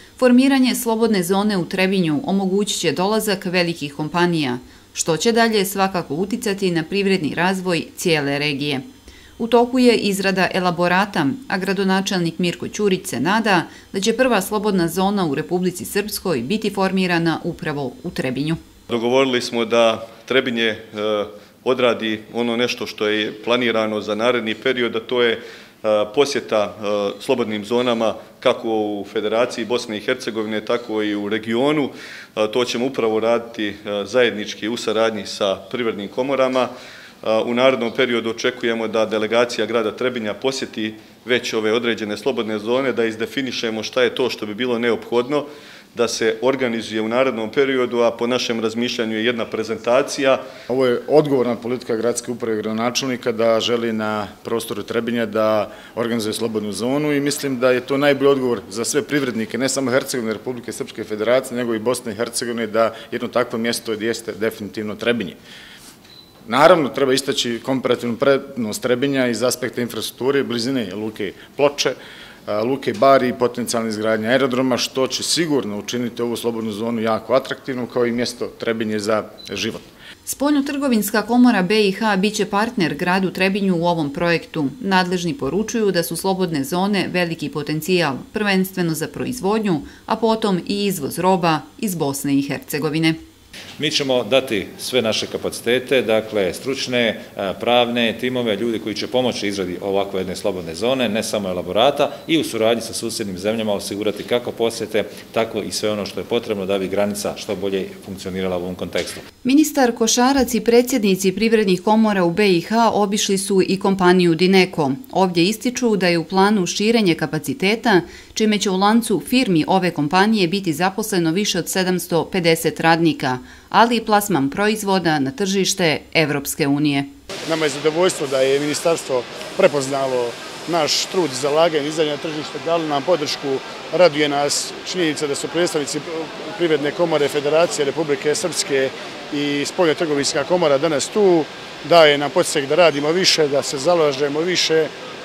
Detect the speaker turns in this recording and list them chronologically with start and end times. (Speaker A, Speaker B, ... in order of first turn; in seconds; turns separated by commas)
Speaker A: 0.2-8.8, Speaker A: 9.4-18.6, Speaker B: 18.9-36.7, Speaker B: 37.2-50.4, Speaker C: 50.7-65.3, Speaker C: 66.5-72.0, Speaker C: 72.5-79.8, Speaker A: 80.2-93.2, Speaker D: 93.8-109.2, Speaker A: 109.4-127.1, Speaker E: 127.5-144.9